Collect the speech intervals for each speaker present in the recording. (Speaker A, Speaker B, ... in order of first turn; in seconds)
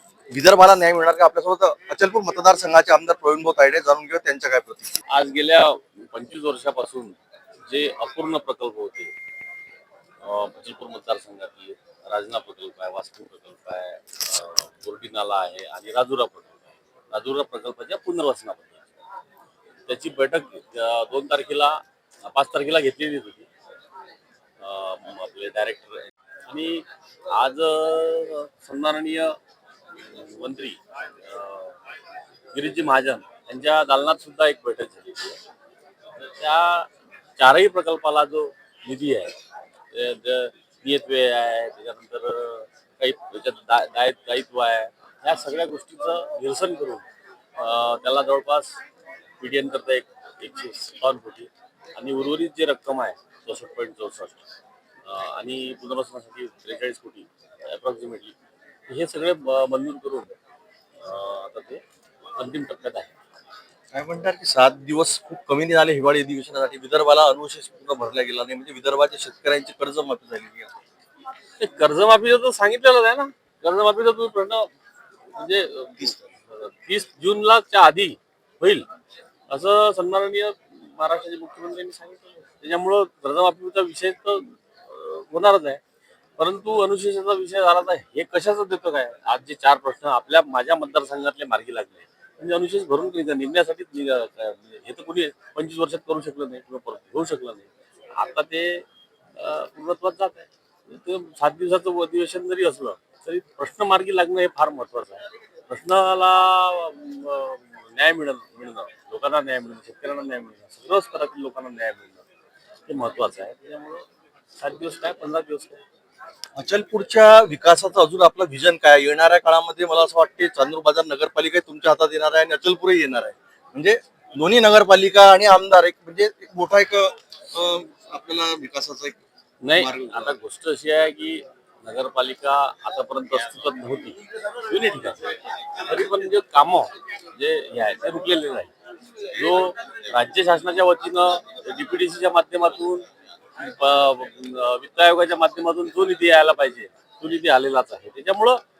Speaker A: 0.3-5.0, 63.9-70.7, 116.6-129.2, 129.8-130.4
Speaker B: 5.1-7.2, 7.7-9.1, 10.2-16.6, 17.1-18.9, 19.9-23.5, 24.6-29.4, 30.1-31.8, 32.5-35.4, 36.2-39.4, 39.9-47.0, 47.6-48.8, 49.4-54.5, 55.1-58.4, 58.9-60.3, 61.0-61.8, 62.4-63.1, 71.6-74.7, 75.3-78.9, 79.5-85.8, 86.4-112.2, 112.9-114.0, 114.6-115.8, 129.6-143.1, 143.6-148.6